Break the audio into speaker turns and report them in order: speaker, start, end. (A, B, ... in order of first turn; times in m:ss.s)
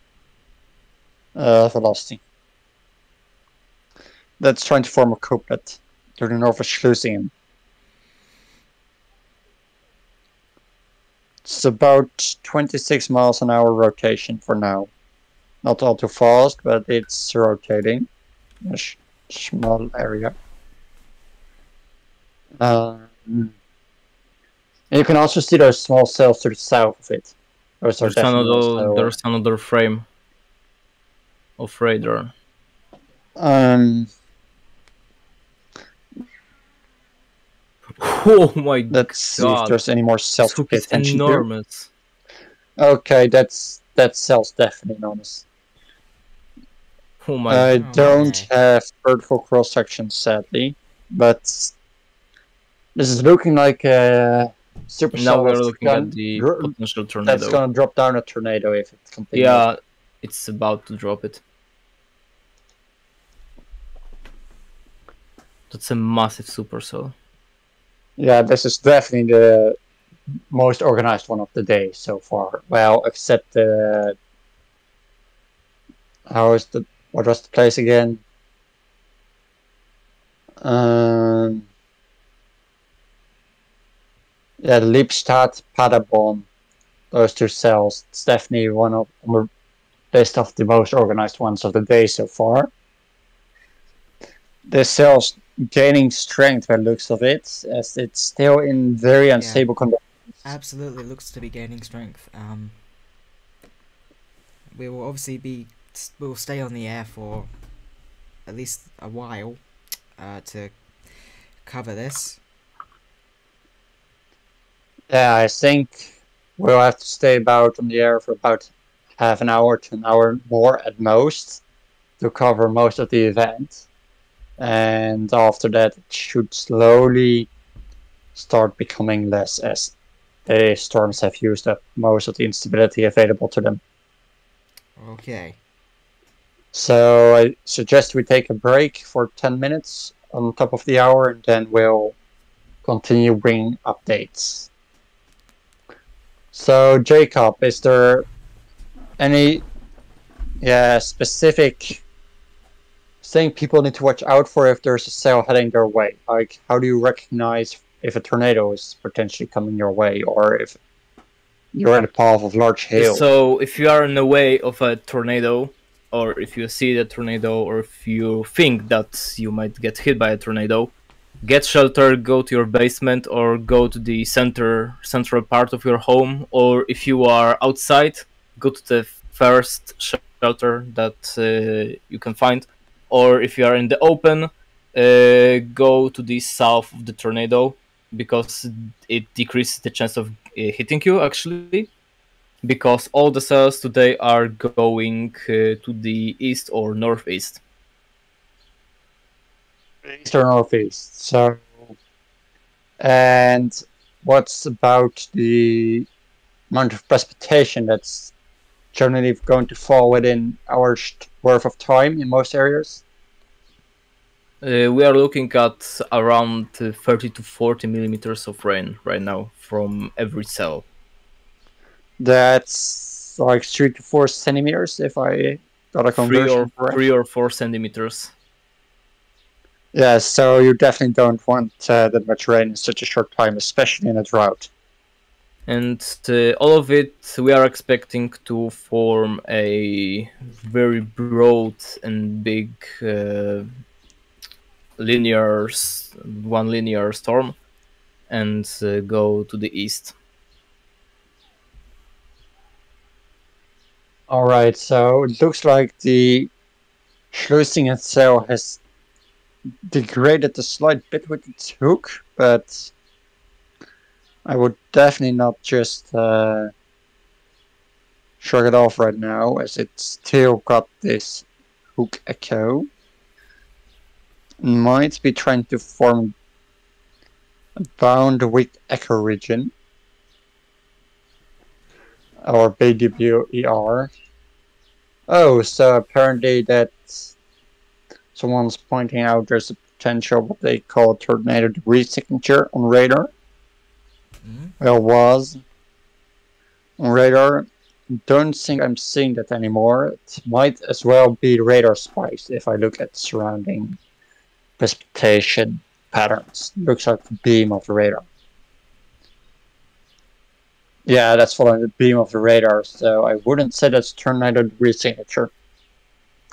0:01.4-0:02.2 A
0:04.4-0:07.3 A
0:11.4-0:14.9 A
0:15.6-0:18.1 A
0:18.6-0:20.3 A
0:22.6-0:23.5 A
0:24.9-0:29.1 A
0:28.0-0:30.0 B
0:31.6-0:32.3 B
0:33.4-0:34.1 A
0:38.0-0:39.8 B
0:38.9-0:41.4 A
0:40.4-0:41.9 B
0:42.8-0:45.4 A
0:47.2-0:47.7 B
0:47.5-0:51.7 A
0:47.8-0:48.5 C
0:53.0-0:56.7 A
0:55.1-0:57.6 B
0:57.3-0:59.6 A
0:59.3-1:01.4 B
1:05.7-1:07.1 B
1:08.2-1:09.8 A
1:10.5-1:14.2 A
1:16.3-1:18.2 A
1:20.6-1:21.6 A
1:24.6-1:26.4 A
1:27.1-1:29.5 A
1:30.1-1:32.7 A
1:34.7-1:40.0 A
1:39.4-1:39.6 C
1:40.4-1:42.8 C
1:44.7-1:47.5 C
1:48.4-1:49.6 C
1:50.2-1:52.4 C
1:55.1-2:01.6 A
2:02.2-2:03.8 A
2:04.6-2:07.5 A
2:08.3-2:09.9 A
2:10.4-2:13.8 A
2:15.0-2:15.6 C
2:16.7-2:22.1 A
2:22.8-2:24.7 A
2:26.5-2:28.3 A
2:29.2-2:29.6 A
2:30.6-2:32.0 A
2:33.2-2:40.8 A
2:41.7-2:43.2 A
2:43.0-3:11.9 B
3:12.6-3:17.6 B
3:20.0-3:21.9 A
3:23.0-3:26.1 A
3:26.7-3:28.3 A
3:28.9-3:33.0 A
3:34.6-3:40.8 B
3:42.2-3:47.0 A
3:46.1-3:48.3 B
3:49.9-3:54.7 A
3:55.7-4:03.7 B
4:05.0-4:07.6 B
4:08.3-4:10.1 B
4:14.3-4:16.5 A
4:17.3-4:18.8 A
4:19.8-4:22.9 A
4:24.4-4:26.7 A
4:28.4-4:32.9 A
4:34.6-4:36.3 A
4:37.8-4:39.7 A
4:42.4-4:44.1 A
4:45.3-4:47.3 A
4:48.3-4:53.3 A
4:54.4-4:54.8 C
4:54.8-4:55.6 A
4:57.0-4:57.7 A
4:58.2-5:04.0 A
5:04.8-5:08.2 A
5:11.0-5:15.5 A